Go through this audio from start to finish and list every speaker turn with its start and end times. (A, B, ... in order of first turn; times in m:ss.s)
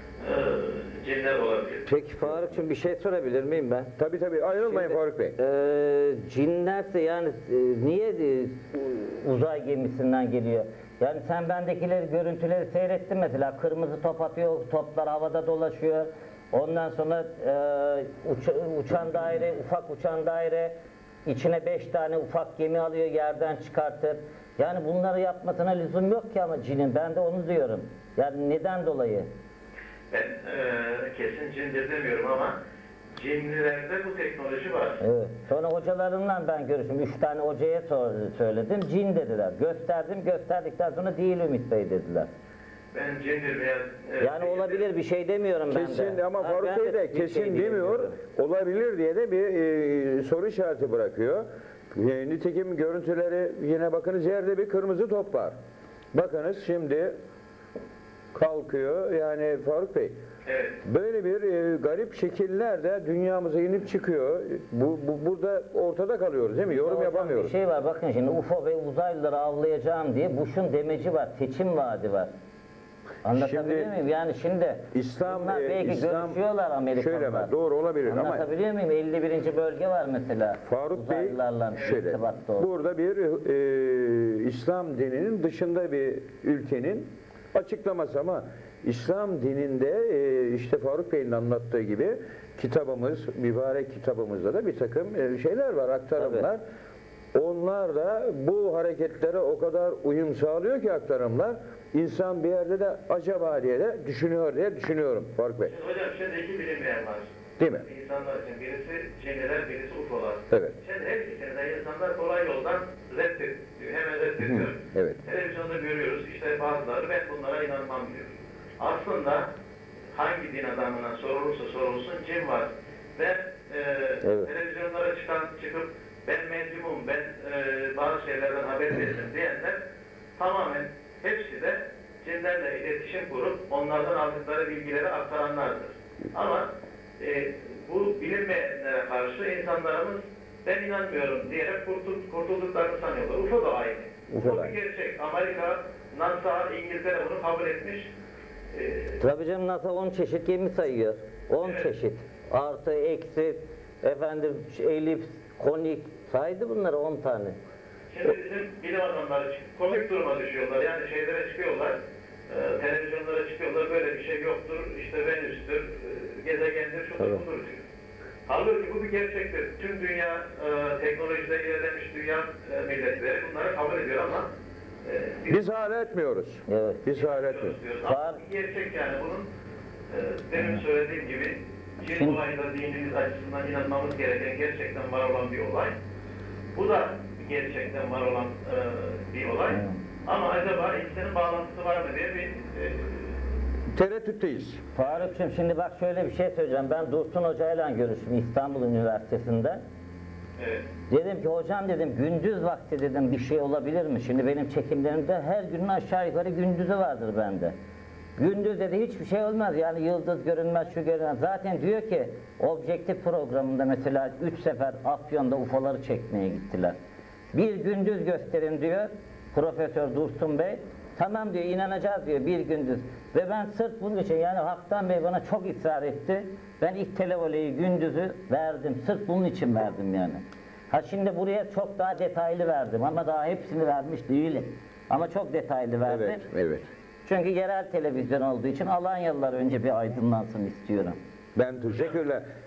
0:00.2-0:01.8 A
0:01.9-0:03.9 B
0:01.9-0:02.6 C
0:04.0-0:05.4 C
0:04.5-0:20.7 B
0:21.2-0:29.3 B
0:30.1-0:32.6 A
0:33.2-0:35.0 A
0:35.0-0:42.3 B
0:42.9-0:44.9 A
0:44.2-0:48.2 B
0:45.7-0:55.5 C
0:56.1-0:57.1 C
0:58.3-1:00.2 C
1:00.4-1:00.8 A
1:00.8-1:07.5 C
1:06.7-1:12.3 B
1:13.2-1:17.5 B
1:13.3-1:13.9 C
1:14.9-1:18.5 C
1:18.0-1:22.7 B
1:20.6-1:36.6 C
1:36.2-1:36.5 B
1:37.3-1:45.7 C
1:45.6-1:59.4 A
1:47.6-1:47.8 C
1:54.4-1:55.2 C
2:00.1-2:09.8 A
2:04.2-2:04.5 B
2:10.4-2:16.7 A
2:17.2-2:28.1 A
2:24.3-2:24.7 C
2:28.7-2:29.2 A
2:29.2-2:37.6 B
2:31.6-2:31.9 A
2:38.1-2:42.0 A
2:42.5-2:47.8 A
2:48.4-2:54.5 A
2:55.0-2:55.7 A
2:55.5-2:57.8 C
2:56.7-2:57.0 B
2:57.1-2:59.5 A
2:58.0-2:58.4 B
3:00.1-3:05.9 A
3:02.1-3:02.4 B
3:06.7-3:13.4 A
3:09.7-3:10.0 B
3:13.9-3:14.8 C
3:14.9-3:19.8 B
3:20.6-3:20.8 A
3:21.1-3:27.7 B
3:28.4-3:36.9 B
3:37.5-3:56.4 B
3:56.1-3:56.8 C
3:57.2-4:01.2 B
4:01.6-4:02.4 C